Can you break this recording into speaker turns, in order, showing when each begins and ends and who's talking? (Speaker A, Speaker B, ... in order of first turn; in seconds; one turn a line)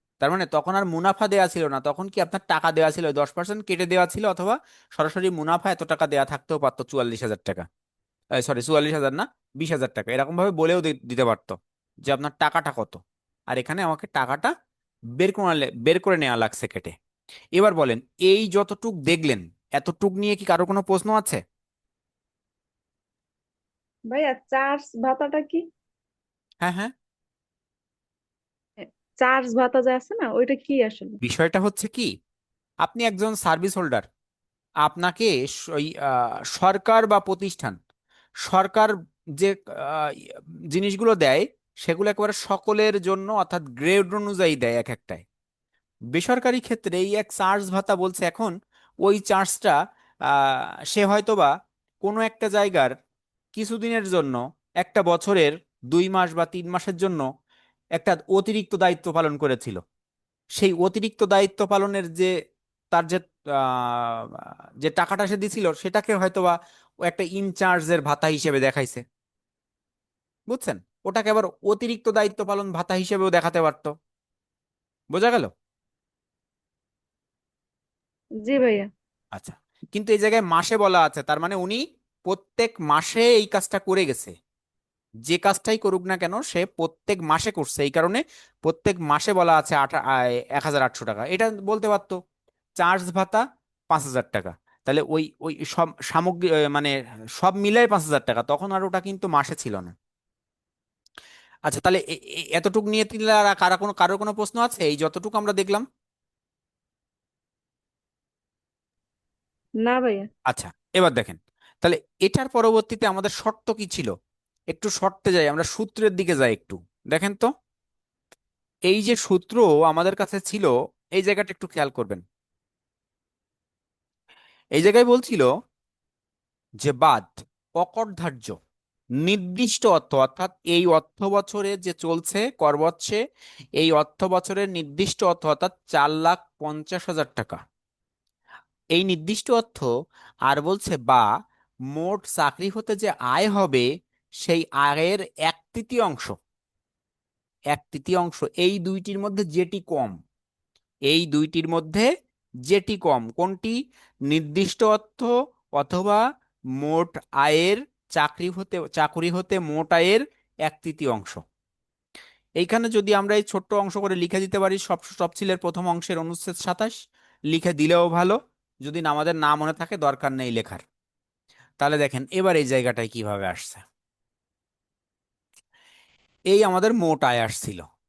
Speaker A: 0.2-7.7
Speaker A: 8.4-14.5
Speaker A: 15.2-16.9
Speaker A: 17.6-21.4
Speaker B: 24.1-25.6
Speaker A: 26.6-26.9
Speaker B: 28.8-31.2
Speaker A: 31.2-32.1
Speaker A: 32.8-34.1
Speaker A: 34.8-37.8
Speaker A: 38.5-45.2
Speaker A: 46.1-49.8
Speaker A: 50.3-51.5
Speaker A: 52.0-52.9
Speaker A: 53.5-57.3
Speaker A: 58.0-59.8
Speaker A: 60.6-62.3
Speaker A: 62.9-66.5
Speaker A: 67.1-69.0
Speaker A: 70.5-73.9
Speaker A: 75.1-75.5
Speaker B: 78.4-78.9
Speaker A: 79.3-84.3
Speaker A: 85.3-92.2
Speaker A: 92.8-99.9
Speaker A: 101.7-105.8
Speaker B: 109.8-110.3
Speaker A: 110.5-114.1
Speaker A: 114.7-117.5
Speaker A: 118.9-122.2
Speaker A: 124.8-125.5
Speaker A: 126.8-128.6
Speaker A: 129.2-133.2
Speaker A: 133.8-137.6
Speaker A: 138.9-139.9
Speaker A: 140.5-141.3
Speaker A: 141.9-143.9
Speaker A: 144.4-146.3
Speaker A: 147.7-150.2
Speaker A: 151.1-152.1
Speaker A: 152.7-153.8
Speaker A: 154.3-156.2
Speaker A: 156.8-161.4
Speaker A: 162.6-167.0
Speaker A: 167.5-170.8
Speaker A: 171.8-173.8
Speaker A: 176.5-177.8